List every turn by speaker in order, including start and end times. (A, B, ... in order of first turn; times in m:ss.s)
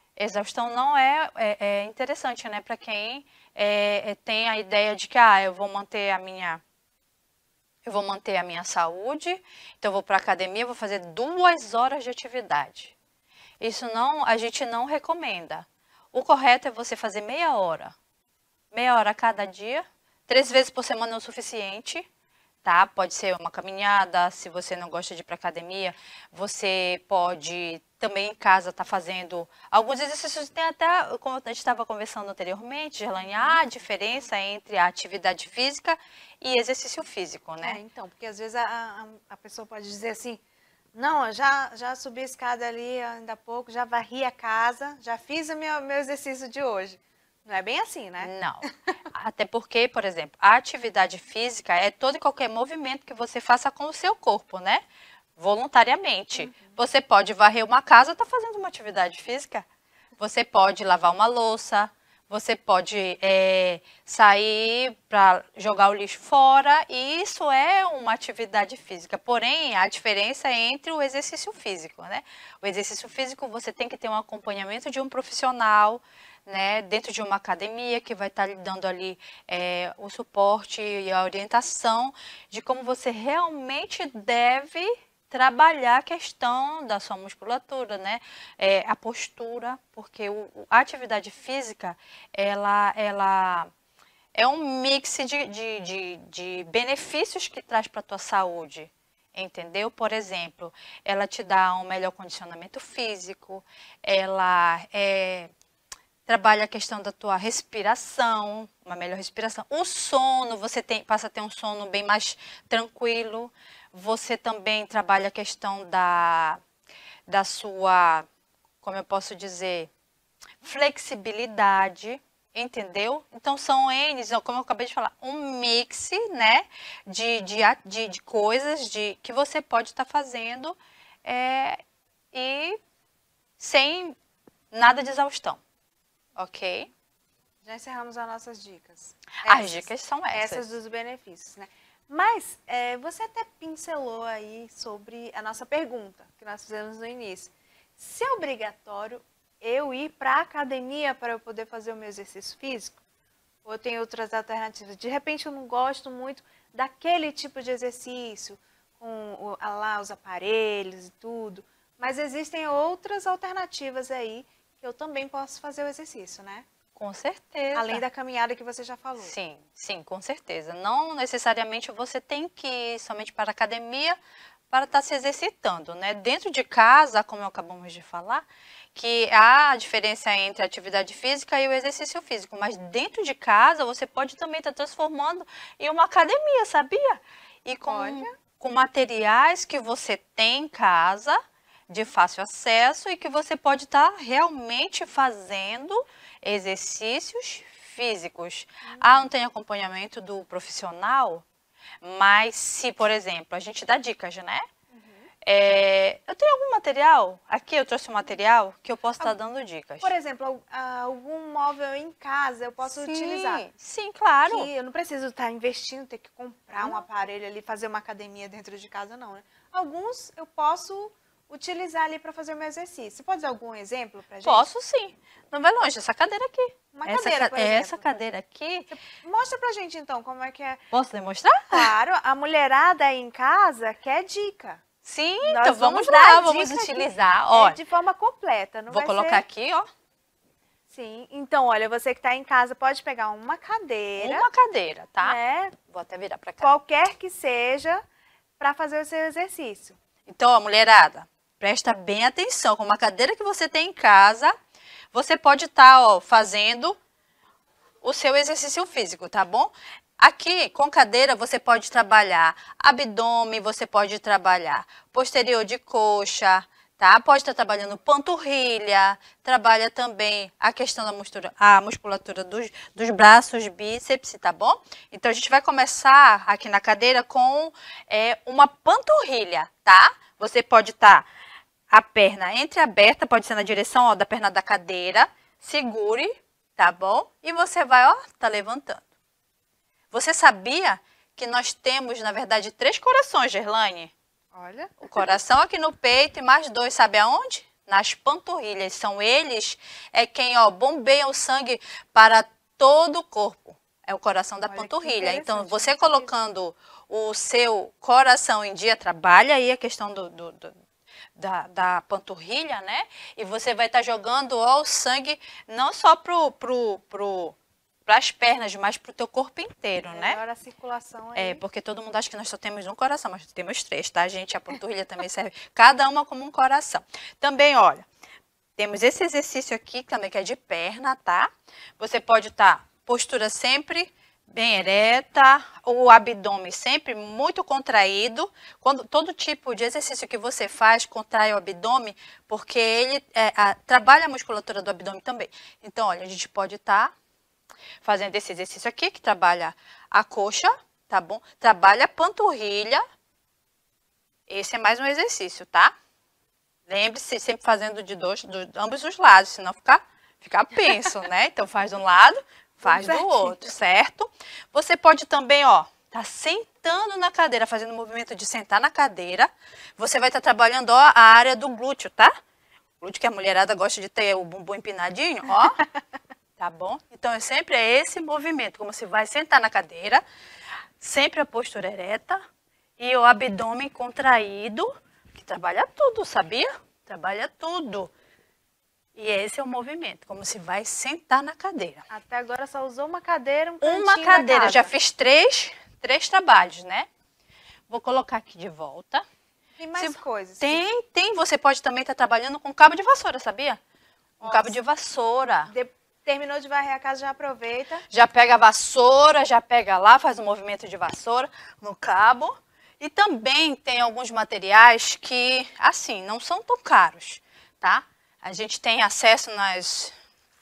0:00.2-0:06.6 A
0:07.8-0:12.9 A
0:13.6-0:18.0 A
0:18.7-0:22.1 A
0:22.6-0:37.8 A
0:33.2-0:33.6 B
0:37.6-0:40.4 B
0:40.9-0:48.7 B
0:48.2-0:54.8 A
0:55.4-0:59.6 A
0:56.4-0:56.8 B
1:00.2-1:33.7 A
1:34.4-1:45.5 A
1:46.3-1:56.6 A
1:57.3-1:58.3 A
1:58.8-1:59.9 A
2:00.6-2:11.8 A
2:12.3-2:12.8 A
2:13.6-2:14.2 A
2:14.7-2:15.6 A
2:16.4-2:16.9 A
2:17.6-2:33.0 B
2:19.5-2:20.6 A
2:33.6-2:46.7 B
2:47.0-2:48.0 A
2:47.7-2:49.3 B
2:49.2-2:54.2 A
2:54.7-3:21.4 A
3:07.9-3:08.3 B
3:18.9-3:19.3 B
3:22.0-3:24.7 A
3:24.9-3:25.3 B
3:25.4-3:30.1 A
3:30.0-3:33.6 B
3:32.9-3:34.7 A
3:34.5-3:44.7 B
3:44.4-3:48.9 A
3:46.9-3:48.0 B
3:48.9-3:50.8 B
3:50.9-3:51.9 A
3:51.7-3:54.8 B
3:55.0-3:57.8 A
3:55.4-3:59.4 B
3:58.9-3:59.9 A
4:00.9-4:04.5 B
4:04.2-4:06.7 A
4:05.2-4:05.8 B
4:06.6-4:08.0 B
4:08.6-4:10.0 B
4:10.3-4:14.6 A
4:15.1-4:17.0 A
4:18.0-4:41.3 A
4:41.9-4:49.0 A
4:50.1-4:54.1 A
4:54.5-4:55.4 B
4:55.0-5:10.7 A
5:04.7-5:06.3 B
5:11.4-5:17.6 A
5:18.1-5:20.4 A
5:20.1-5:21.6 B
5:21.4-5:28.0 A
5:28.8-5:47.1 A
5:48.0-5:53.0 A
5:54.5-5:55.9 A
5:56.9-6:12.3 A
6:02.8-6:03.6 B
6:13.0-6:15.8 A
6:16.6-6:20.2 A
6:21.0-6:22.4 A
6:23.0-6:28.1 A
6:29.2-6:32.1 A
6:32.1-6:34.9 B
6:33.8-6:37.1 A
6:37.9-6:39.2 A
6:39.8-6:40.8 B
6:40.0-6:43.8 A
6:44.4-6:44.8 B
6:44.4-6:45.7 A
6:45.7-6:48.0 B
6:48.1-7:00.1 A